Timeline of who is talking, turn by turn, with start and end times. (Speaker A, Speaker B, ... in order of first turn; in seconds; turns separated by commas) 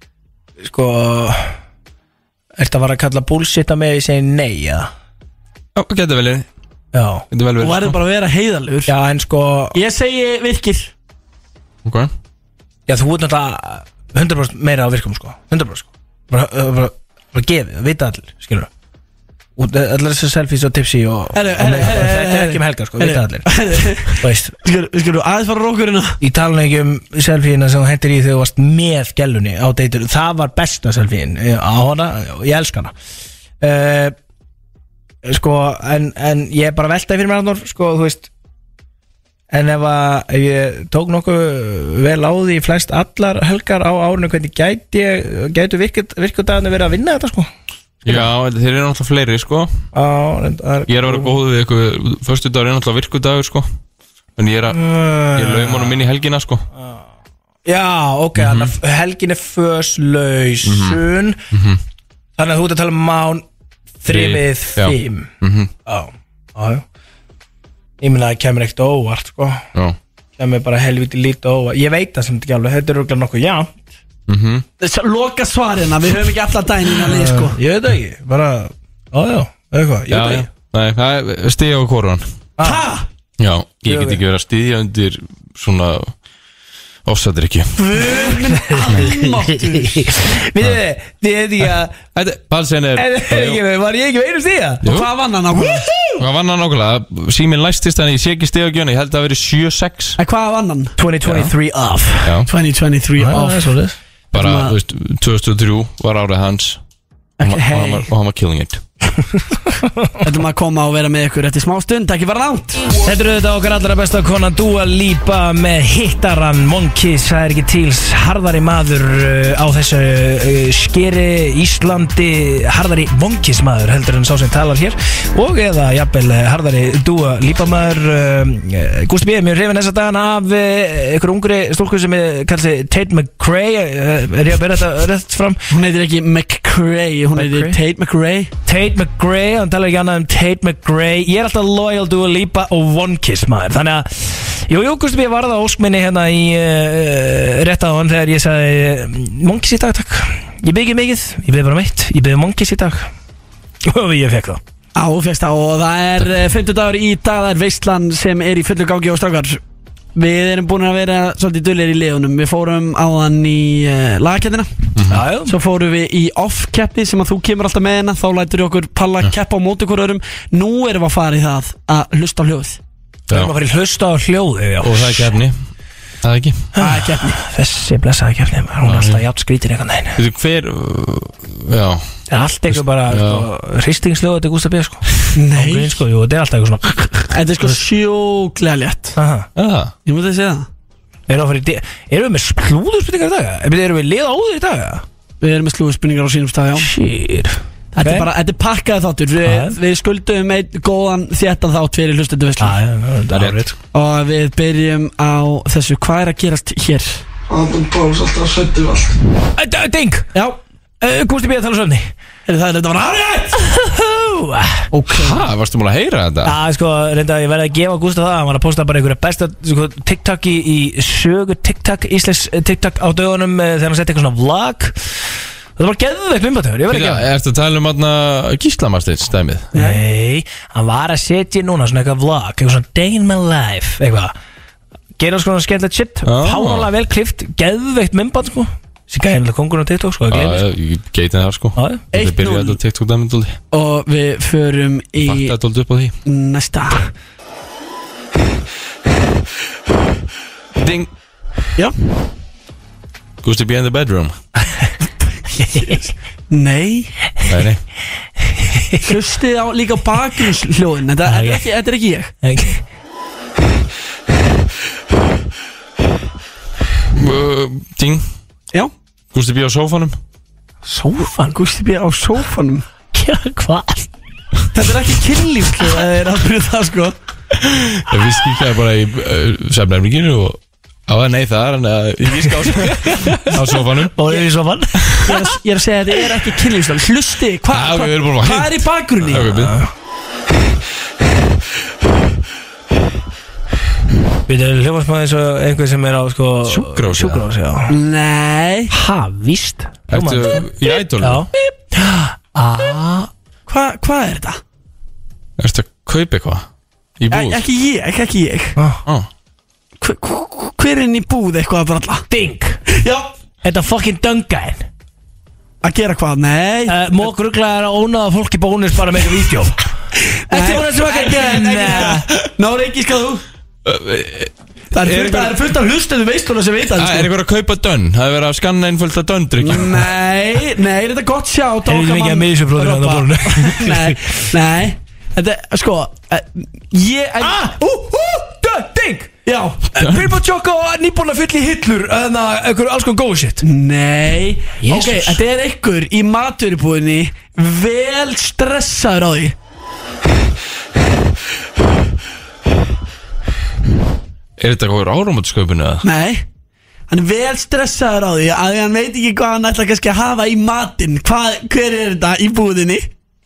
Speaker A: 0.6-1.6, Speaker A: 2.6-4.9, Speaker B: 5.7-6.5, Speaker A: 6.9-7.2, Speaker B: 7.3-8.0, Speaker C: 7.6-8.9, Speaker A: 8.9-9.8, Speaker C: 9.7-10.9, Speaker B: 11.8-12.1, Speaker A: 12.9-18.7, Speaker A: 19.6-24.6, Speaker C: 21.3-26.2, Speaker A: 26.2-32.9, Speaker A: 33.6-34.1, Speaker A: 35.2-38.3, Speaker A: 39.5-47.5, Speaker B: 48.0-49.7, Speaker A: 49.9-51.4, Speaker B: 50.9-53.7, Speaker B: 54.4-56.6, Speaker A: 54.7-56.0, Speaker A: 57.6-61.4, Speaker B: 58.4-58.7, Speaker B: 60.6-61.8, Speaker A: 62.4-63.5, Speaker A: 64.0-65.3, Speaker B: 64.1-65.7, Speaker A: 65.8-66.8, Speaker A: 68.0-69.6, Speaker A: 70.4-73.8, Speaker B: 74.3-74.7, Speaker C: 74.8-77.6, Speaker A: 77.0-80.5, Speaker B: 80.1-82.2, Speaker C: 82.6-83.0, Speaker B: 83.4-86.1, Speaker A: 83.8-84.2, Speaker B: 87.0-87.8, Speaker C: 87.8-90.1, Speaker A: 88.6-92.0, Speaker B: 92.1-93.6, Speaker A: 93.0-94.8, Speaker B: 94.8-95.1, Speaker C: 94.8-95.8, Speaker A: 95.5-96.2, Speaker B: 96.2-100.2, Speaker C: 100.2-101.0, Speaker A: 101.0-102.4, Speaker B: 101.2-101.5, Speaker B: 102.2-102.5, Speaker C: 102.5-103.7, Speaker A: 103.2-104.0, Speaker B: 104.3-106.8, Speaker C: 104.3-104.7, Speaker C: 107.4-108.1, Speaker B: 107.4-108.8, Speaker A: 109.8-110.1, Speaker C: 110.2-112.8, Speaker A: 113.0-135.6, Speaker C: 135.7-138.5, Speaker A: 137.3-137.8, Speaker A: 138.7-153.1, Speaker A: 153.8-154.6, Speaker C: 154.9-159.6, Speaker C: 160.1-164.7, Speaker B: 164.9-165.2, Speaker A: 165.1-165.5, Speaker C: 165.4-172.8, Speaker A: 173.3-175.3, Speaker B: 174.8-175.7, Speaker B: 176.2-176.7, Speaker A: 176.8-180.2, Speaker C: 176.8-177.4, Speaker B: 178.8-179.2, Speaker B: 180.2-182.1, Speaker A: 182.3-187.8, Speaker B: 182.7-183.5, Speaker C: 185.3-186.0, Speaker C: 187.3-189.2, Speaker A: 189.2-189.5, Speaker B: 189.5-189.9, Speaker C: 190.0-190.7, Speaker A: 191.3-195.0, Speaker C: 195.4-196.9, Speaker A: 196.8-198.3, Speaker C: 197.9-202.8, Speaker A: 199.4-199.8, Speaker A: 202.6-203.8, Speaker B: 203.3-203.7, Speaker C: 203.9-209.1, Speaker A: 209.6-210.3, Speaker A: 211.0-212.1, Speaker C: 212.4-213.6, Speaker A: 213.7-214.8, Speaker C: 214.9-215.4, Speaker B: 215.1-216.6, Speaker A: 216.4-224.9, Speaker A: 225.8-227.3, Speaker B: 226.9-229.7, Speaker C: 229.7-230.0, Speaker A: 229.7-234.3, Speaker A: 235.2-240.6, Speaker B: 236.2-236.9, Speaker B: 240.3-243.6, Speaker A: 241.8-242.0, Speaker C: 242.1-242.8, Speaker C: 243.7-245.5, Speaker B: 245.2-246.1, Speaker C: 246.2-247.1, Speaker B: 250.8-251.1, Speaker B: 253.4-254.3, Speaker C: 255.6-257.1, Speaker A: 255.6-255.9, Speaker B: 257.4-257.8, Speaker A: 258.6-259.0, Speaker C: 259.0-262.3, Speaker A: 261.2-261.7, Speaker A: 262.4-262.8, Speaker B: 267.1-268.3, Speaker B: 269.3-270.2, Speaker A: 270.8-271.5, Speaker C: 271.4-272.9, Speaker A: 273.1-274.1, Speaker C: 274.7-277.1, Speaker B: 277.6-284.4, Speaker A: 282.8-283.5, Speaker A: 284.1-285.4, Speaker C: 285.2-289.5, Speaker B: 287.7-289.7, Speaker A: 289.4-289.9, Speaker A: 294.5-297.9, Speaker B: 296.6-297.4, Speaker C: 297.9-298.9, Speaker A: 298.9-303.3, Speaker B: 300.1-301.4, Speaker C: 303.7-304.6, Speaker B: 305.6-306.7, Speaker B: 307.2-307.6, Speaker C: 307.3-308.7, Speaker A: 308.8-309.0, Speaker C: 310.0-312.2, Speaker A: 312.3-312.8, Speaker C: 312.9-313.3, Speaker A: 313.6-314.8, Speaker C: 315.8-317.0, Speaker A: 316.9-319.8, Speaker C: 320.5-323.4, Speaker A: 320.5-322.3, Speaker B: 323.8-325.6, Speaker C: 324.9-327.3, Speaker B: 326.9-330.1, Speaker C: 329.6-337.7, Speaker A: 331.9-334.2, Speaker A: 337.4-339.3, Speaker C: 339.4-339.8, Speaker A: 339.9-343.6, Speaker C: 343.6-349.5, Speaker A: 344.8-345.4, Speaker B: 354.6-356.0, Speaker C: 356.0-356.4, Speaker C: 357.1-363.1